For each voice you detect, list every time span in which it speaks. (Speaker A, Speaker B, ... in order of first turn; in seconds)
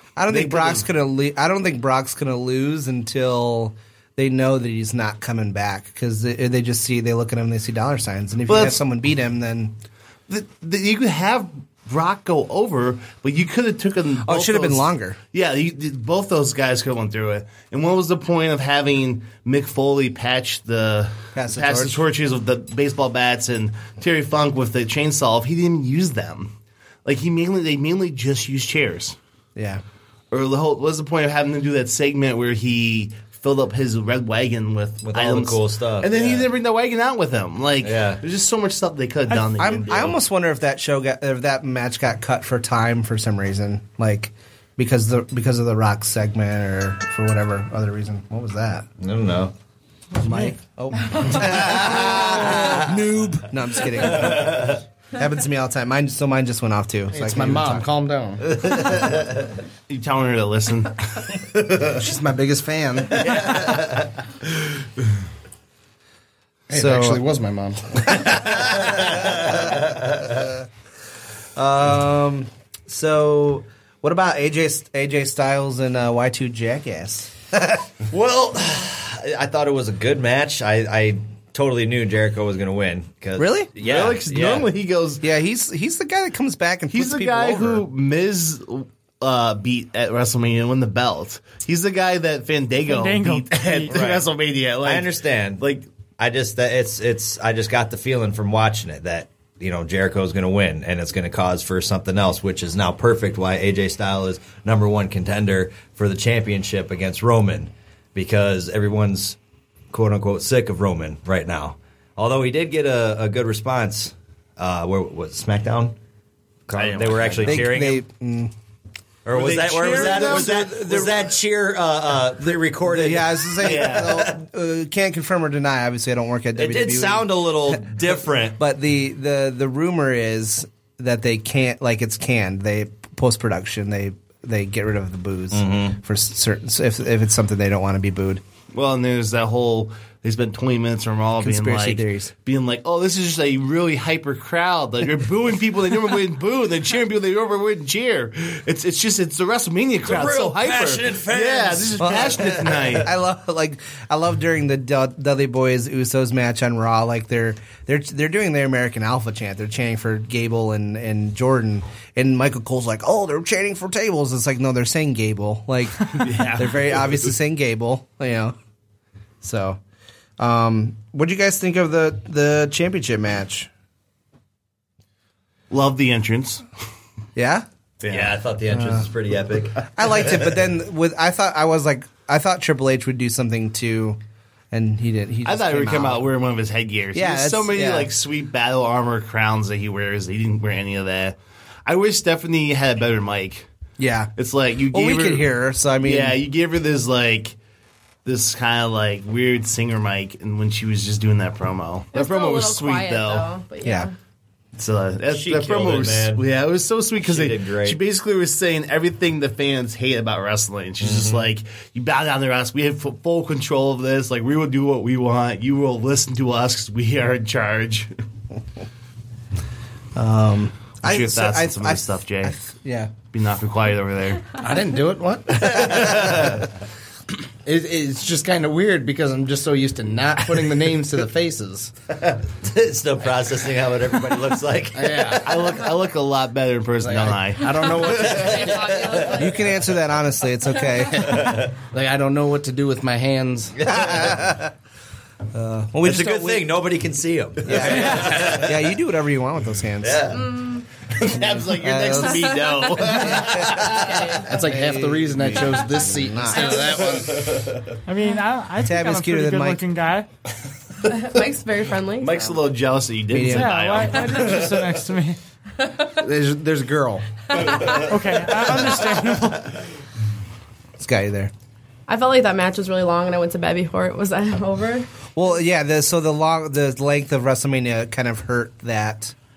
Speaker A: 0.2-9.8, 14.2-15.2, 21.4-22.0, 29.6-29.8, 39.6-48.9, 50.3-57.9, 62.0-63.1, 66.7-67.2, 71.6-77.5, 83.4-83.7, 85.2-87.9, 117.5-118.5, 119.8-121.1, 122.8-138.4, 141.4-142.3, 152.0-168.6, 169.4-169.8, 170.4-173.7, 177.4-177.7, 178.7-179.1, 179.9-184.2, 184.7-186.3, 187.1-188.1, 194.0-194.3, 194.9-196.4, 203.8-204.1, 220.2-223.1, 239.3-241.5, 244.0-244.7, 245.5-246.7, 247.6-250.3, 251.7-254.0, 254.6-256.8, 258.8-259.8, 263.3-263.9, 271.0-271.5, 275.4-279.4
Speaker B: 0.3-0.8, 8.5-8.8, 10.3-26.5, 27.1-29.2, 30.3-40.2, 50.2-50.5, 59.9-61.0, 83.8-85.2, 86.9-95.9, 116.7-117.7, 119.3-121.2, 123.6-124.3, 138.7-153.1, 166.2-167.1, 175.7-176.6, 178.0-178.4, 185.5-193.7, 194.4-197.6, 198.2-203.5, 204.8-218.1, 221.0-222.6, 223.3-224.6, 235.5-237.9, 251.2-254.0, 262.2-264.5
Speaker C: 35.0-36.5, 37.8-38.2, 49.0-49.5, 51.4-52.9, 54.1-54.8, 58.7-59.3, 63.2-64.1, 68.7-70.3, 78.1-84.7, 93.9-94.2, 94.8-95.6, 96.2-109.4, 109.9-116.0, 116.7-118.0, 119.2-124.4, 126.6-128.6, 135.5-136.0, 150.1-153.0, 178.1-180.3, 205.3-206.4, 207.2-208.0, 211.0-211.4, 225.7-226.6, 232.5-235.9, 238.3-239.3, 241.4-241.7, 243.8-244.4, 246.0-248.9, 250.0-250.5, 253.6-254.3
Speaker D: 57.1-58.5, 62.0-63.1, 66.7-68.3, 224.6-226.2, 227.7-231.9, 234.9-235.5, 237.0-238.8, 241.1-243.8, 254.5-257.7, 266.2-267.2
Speaker E: 92.9-94.0, 258.1-260.3, 263.5-265.4, 267.9-269.8
Speaker F: 202.1-204.1, 237.9-239.7, 250.3-250.9, 252.5-254.5, 261.1-262.6, 267.6-268.0, 272.1-275.1